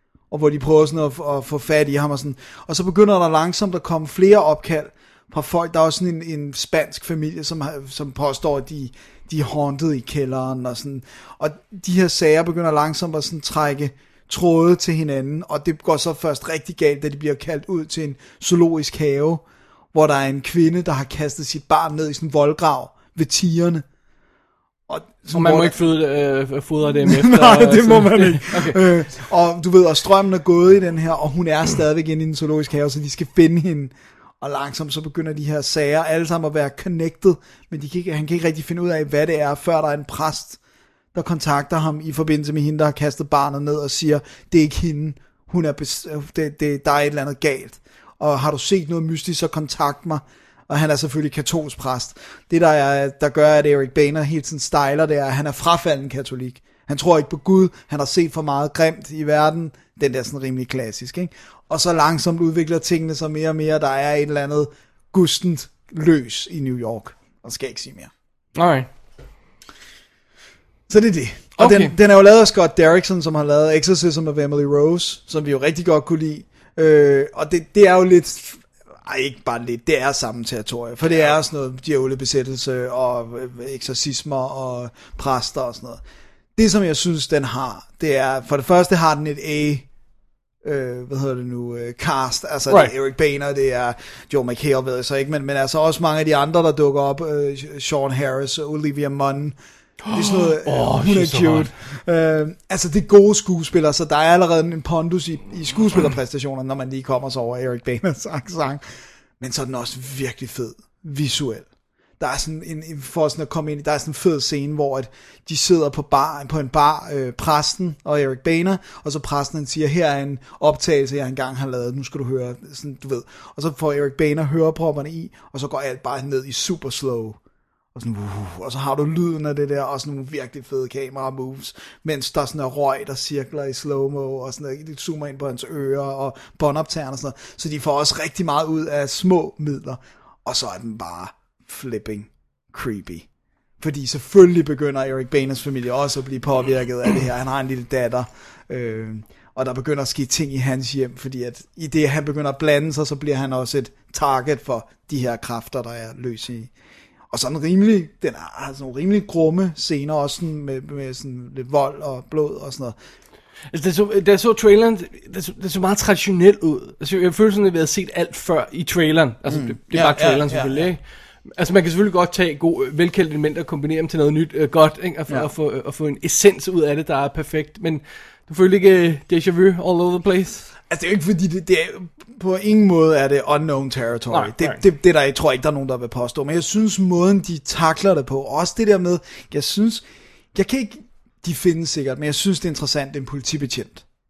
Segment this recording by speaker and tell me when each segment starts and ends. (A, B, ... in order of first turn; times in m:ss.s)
0:00.3-0:23.8 A
0:24.9-0:25.8 A
0:25.3-0:28.8 B
0:27.0-0:40.6 A
0:41.1-1:08.1 A
1:08.6-1:08.9 B
1:10.9-1:26.0 A
1:11.6-1:11.9 B
1:26.6-1:29.8 A
1:30.6-1:39.6 A
1:32.7-1:32.9 B
1:40.0-1:41.7 B
1:40.1-1:48.8 A
1:49.4-1:51.7 A
1:52.2-2:07.4 A
2:07.9-2:23.2 A
2:23.8-2:36.7 A
2:37.3-2:43.0 A
2:43.7-2:51.0 B
2:49.5-2:50.9 A
2:51.6-3:00.7 B
3:00.9-3:10.0 A
3:04.3-3:04.8 B
3:10.5-3:14.0 A